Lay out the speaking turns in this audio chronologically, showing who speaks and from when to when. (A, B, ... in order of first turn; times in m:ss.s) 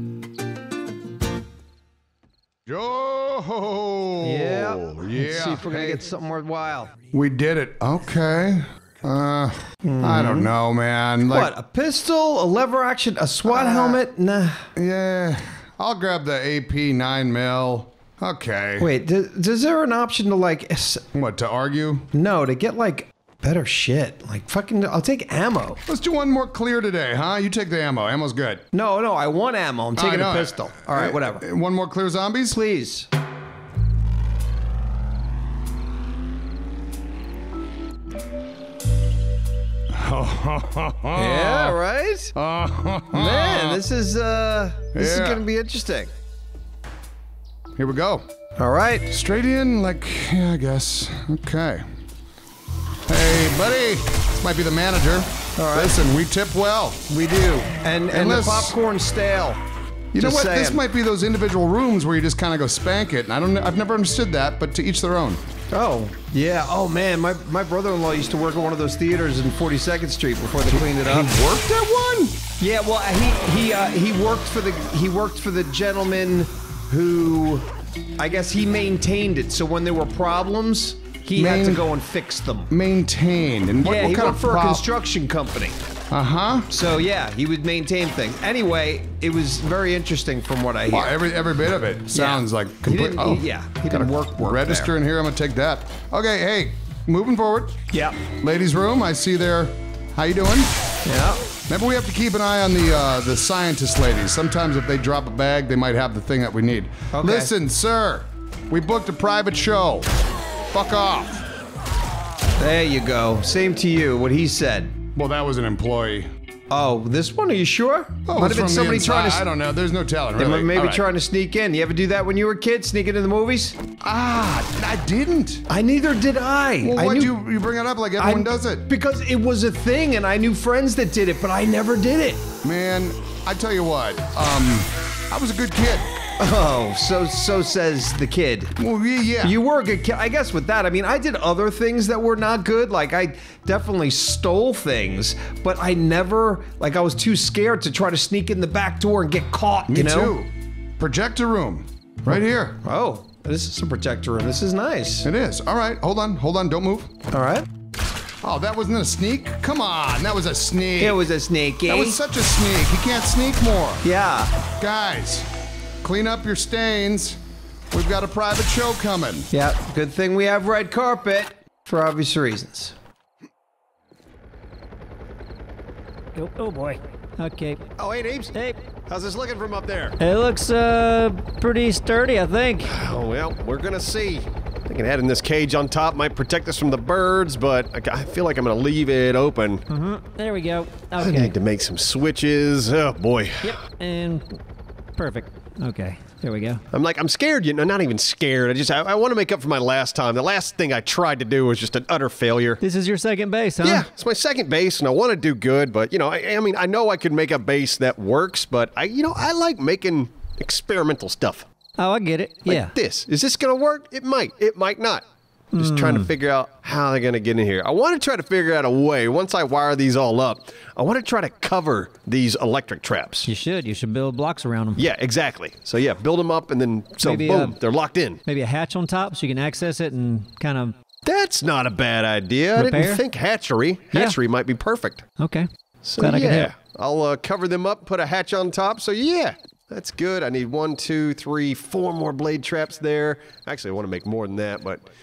0:02.7-0:06.0 A
0:04.2-0:07.0 B
0:07.1-0:11.5 A
0:09.8-0:10.5 B
0:11.3-0:14.7 B
0:13.4-0:14.0 A
0:14.8-0:18.9 A
0:18.8-0:21.0 B
0:21.1-0:22.1 A
0:22.1-0:25.8 B
0:25.9-0:28.6 A
0:28.7-0:31.4 B
0:29.9-0:32.6 A
0:32.5-0:33.1 B
0:39.9-0:41.8 A
0:41.1-0:42.3 B
0:42.3-0:43.8 A
0:43.1-0:46.1 B
0:44.9-0:45.4 A
0:47.8-0:48.2 A
0:48.6-0:49.1 B
0:49.1-0:51.8 A
0:53.1-0:57.1 A
0:55.6-0:56.0 B
0:57.1-0:59.6 B
0:58.1-0:58.8 A
1:00.1-1:05.4 A
1:00.2-1:00.8 B
1:05.7-1:11.3 B
1:10.7-1:12.4 A
1:12.6-1:17.7 B
1:18.2-1:22.7 B
1:21.3-1:21.8 A
1:22.7-1:24.8 A
1:23.8-1:25.8 B
1:26.1-1:26.7 A
1:26.7-1:31.1 B
1:30.9-1:37.8 A
1:32.1-1:34.9 B
1:37.9-1:38.2 B
1:38.3-1:40.7 A
1:41.0-1:41.5 B
1:41.7-1:50.1 A
1:47.1-1:47.5 B
1:50.7-1:51.4 A
1:52.6-1:55.0 B
1:55.1-1:56.3 A
1:56.7-1:59.4 B
1:58.2-2:01.0 A
2:00.4-2:03.8 B
2:04.0-2:05.7 A
2:05.7-2:07.3 B
2:06.8-2:08.9 A
2:08.2-2:12.4 B
2:12.6-2:16.1 A
2:16.4-2:18.7 B
2:18.8-2:19.6 A
2:19.4-2:30.4 B
2:29.9-2:32.8 A
2:32.8-2:35.3 B
2:35.2-2:37.1 A
2:37.3-2:37.7 B
2:38.4-2:41.2 A
2:41.0-2:42.2 B
2:41.8-2:44.0 A
2:44.0-2:44.6 B
2:44.7-2:45.5 A
2:46.0-2:47.4 A
2:47.9-2:49.5 A
2:49.5-2:52.9 B
2:56.3-2:57.8 C
2:58.0-2:58.5 D
2:59.1-3:00.2 D
3:00.2-3:02.9 C
3:02.8-3:09.8 D
3:09.9-3:11.5 C
3:11.2-3:13.8 D
3:13.6-3:14.6 C
3:15.2-3:16.8 C
3:16.9-3:22.8 D
3:22.8-3:24.0 C
3:23.8-3:31.7 D
3:32.0-3:32.9 C
3:32.7-3:35.2 D
3:35.7-3:36.3 C
3:35.8-3:43.5 D
3:43.4-3:45.0 C
3:45.0-3:48.4 D
3:47.2-3:47.7 C
3:48.4-3:51.0 C
3:51.2-3:55.2 D
3:52.7-3:53.2 C
3:55.4-3:55.7 C
3:56.0-4:05.1 D
3:56.2-3:56.7 C